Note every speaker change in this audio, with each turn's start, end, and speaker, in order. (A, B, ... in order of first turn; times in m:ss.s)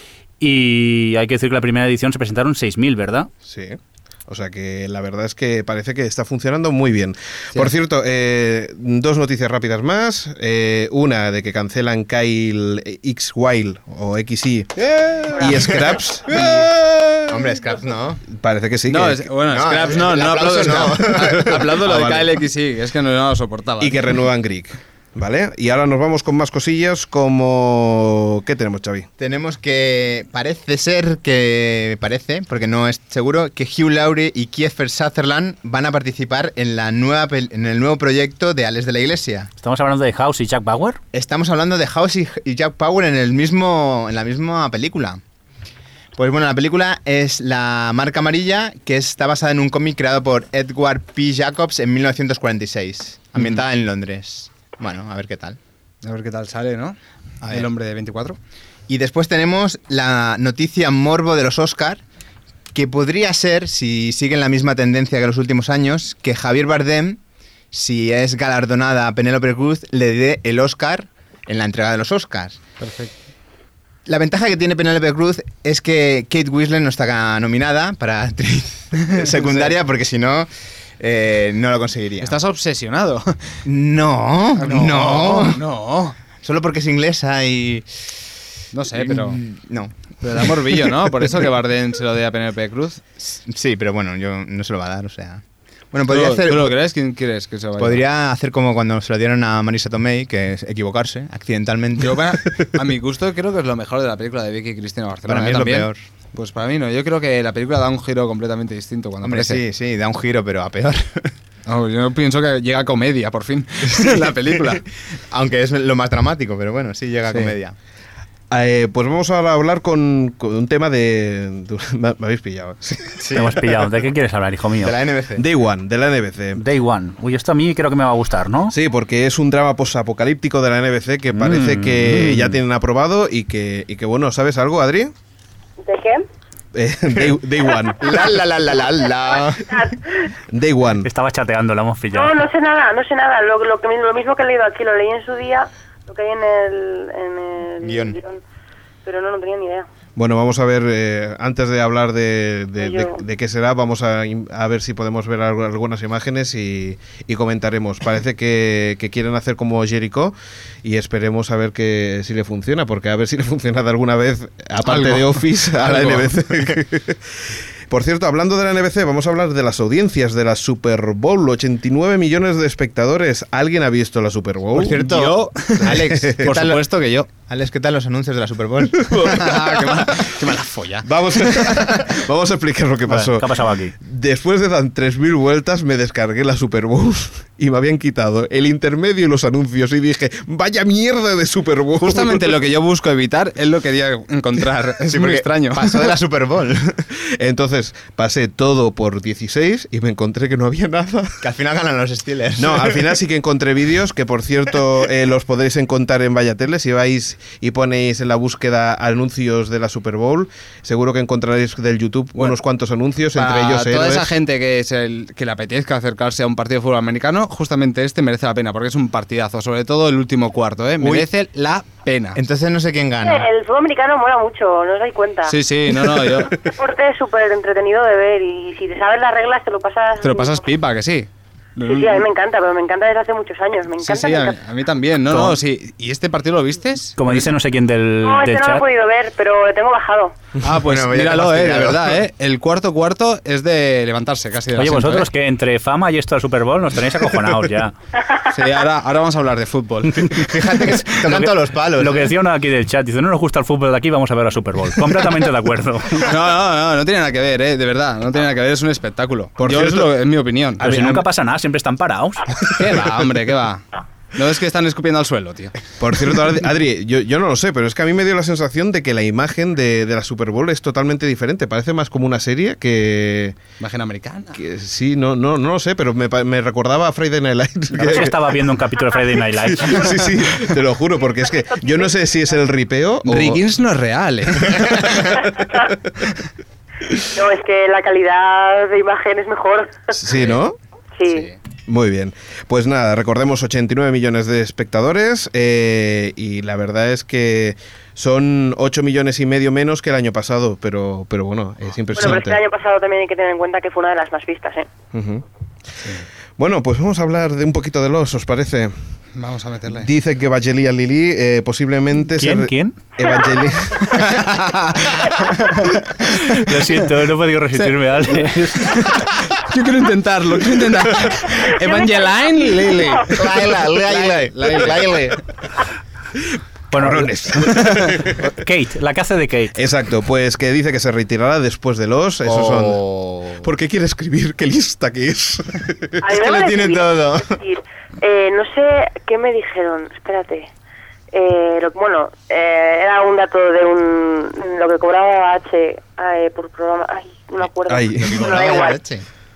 0:00.4-0:03.3 A
0:03.5-0:17.4 B
0:14.9-0:15.2 C
0:16.3-0:16.7 D
0:17.3-0:18.2 D
0:18.4-0:19.3 B
0:18.9-0:24.1 C
0:19.5-0:21.6 D
0:21.1-0:22.3 B
0:23.8-0:29.1 B
0:29.2-0:39.5 D
0:39.6-0:41.0 A
0:41.1-0:45.2 D
0:46.2-0:55.6 D
0:56.0-0:58.4 C
0:57.4-0:57.7 D
0:58.9-1:02.0 D
1:02.7-1:07.2 D
1:07.7-1:12.6 D
1:12.8-1:13.1 C
1:14.1-1:22.4 D
1:19.4-1:19.7 C
1:22.2-1:23.6 C
1:23.6-1:25.6 D
1:24.6-1:26.2 C
1:26.4-1:28.2 D
1:28.7-1:29.4 C
1:29.0-1:31.1 D
1:30.2-1:33.0 C
1:33.2-1:36.7 D
1:36.1-1:38.0 C
1:37.8-1:42.4 D
1:42.0-1:49.6 C
1:45.3-1:46.0 D
1:49.2-1:51.3 D
1:51.7-1:54.8 C
1:53.9-1:54.8 D
1:55.3-1:57.8 D
1:58.5-2:03.2 B
2:03.2-2:03.6 D
2:03.4-2:04.9 A
2:04.8-2:05.4 D
2:05.4-2:06.6 B
2:06.6-2:08.7 A
2:08.7-2:15.1 B
2:11.3-2:12.6 A
2:15.8-2:16.3 E
2:16.7-2:18.1 B
2:18.0-2:19.9 D
2:19.4-2:20.0 E
2:20.5-2:21.1 B
2:21.0-2:22.4 A
2:22.1-2:28.4 E
2:27.8-2:28.2 D
2:29.0-2:29.9 E
2:30.2-2:47.2 B
2:32.8-2:33.2 E
2:44.8-2:46.3 C
2:47.9-2:55.1 B
2:54.8-2:57.3 C
2:54.8-2:59.6 D
2:55.8-2:56.5 B
2:59.0-3:00.0 B
2:59.3-3:02.0 C
3:01.0-3:12.6 B
3:03.1-3:03.9 A
3:12.0-3:16.1 C
3:15.1-3:17.0 D
3:17.4-3:21.4 B
3:21.4-3:23.1 D
3:22.6-3:34.3 B
3:33.4-3:42.4 C
3:41.0-3:41.3 D
3:42.4-3:43.5 D
3:43.2-3:45.6 E
3:45.5-3:46.6 C
3:46.3-3:50.6 E
3:50.2-3:52.3 C
3:51.8-3:54.6 E
3:54.0-3:57.5 C
3:55.3-3:55.6 A
3:57.2-3:58.8 A
3:58.2-4:00.4 E
4:00.6-4:05.3 C
4:00.8-4:02.2 D
4:04.8-4:08.0 A
4:08.5-4:11.0 C
4:10.4-4:12.3 D
4:11.3-4:16.3 A
4:16.2-4:21.2 C
4:19.6-4:20.1 B
4:20.8-4:22.5 A
4:22.6-4:23.8 C
4:24.3-4:25.8 C
4:26.0-4:33.6 B
4:33.8-4:34.6 C
4:34.6-4:38.4 B
4:37.9-4:40.2 A
4:39.6-4:43.6 B
4:43.2-4:45.4 C
4:44.7-4:45.5 B
4:47.3-4:50.1 E
4:50.1-4:50.8 B
4:51.2-4:51.5 E
4:51.9-5:02.6 B
5:02.1-5:04.9 E
5:05.1-5:05.4 B
5:06.6-5:08.9 B
5:09.4-5:10.1 C
5:09.9-5:14.4 B
5:12.4-5:13.0 A
5:14.0-5:17.0 C
5:16.5-5:19.1 A
5:17.8-5:25.4 C
5:21.8-5:23.0 E
5:23.3-5:25.4 D
5:26.9-5:27.3 A
5:27.0-5:28.5 B
5:28.4-5:29.8 A
5:29.8-5:33.0 B
5:32.4-5:33.7 D
5:33.6-5:36.2 B
5:36.2-5:40.7 E
5:36.3-5:37.6 D
5:41.3-5:49.0 E
5:47.9-5:48.7 B
5:48.2-5:49.2 D